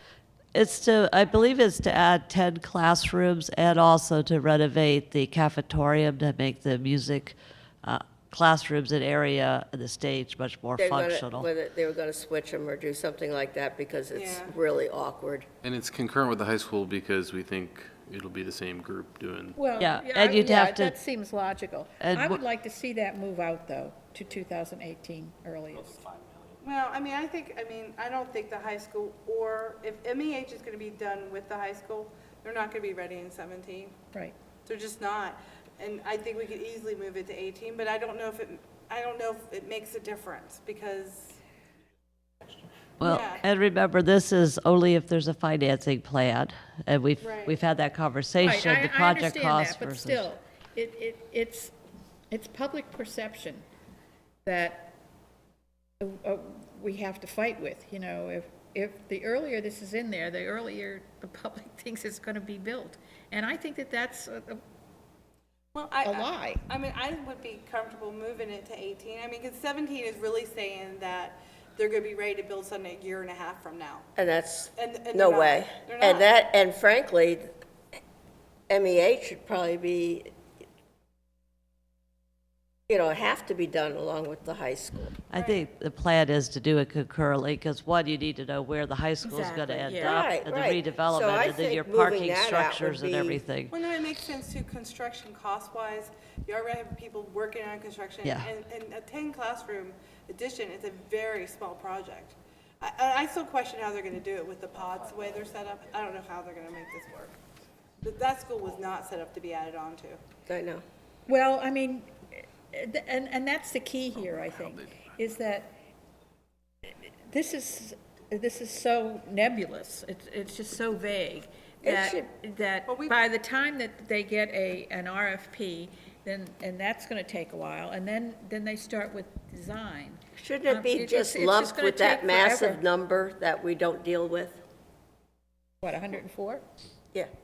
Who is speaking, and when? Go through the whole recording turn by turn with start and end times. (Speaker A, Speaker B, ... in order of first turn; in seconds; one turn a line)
Speaker A: 0.5-11.5
Speaker B: 10.8-15.5
Speaker C: 14.1-14.5
Speaker D: 15.6-19.6
Speaker E: 19.6-26.1
Speaker A: 19.8-20.9
Speaker A: 22.0-22.4
Speaker C: 26.6-33.9
Speaker C: 34.6-41.4
Speaker A: 43.0-50.3
Speaker C: 43.0-43.4
Speaker C: 47.2-47.6
Speaker E: 48.4-51.7
Speaker E: 52.3-53.6
Speaker E: 54.5-55.0
Speaker E: 56.0-64.6
Speaker C: 65.7-74.1
Speaker E: 66.0-66.7
Speaker B: 74.2-77.5
Speaker C: 74.8-76.3
Speaker B: 78.7-80.3
Speaker B: 82.9-85.2
Speaker A: 85.3-93.7
Speaker C: 85.3-85.7
Speaker E: 89.2-90.2
Speaker B: 90.0-93.4
Speaker C: 93.7-107.3
Speaker A: 98.2-98.5
Speaker C: 108.0-110.2
Speaker B: 110.5-110.8
Speaker E: 111.3-115.7
Speaker D: 114.6-114.9
Speaker E: 116.9-132.8
Speaker B: 121.8-122.2
Speaker C: 122.9-123.2
Speaker B: 130.3-134.6
Speaker E: 135.8-136.6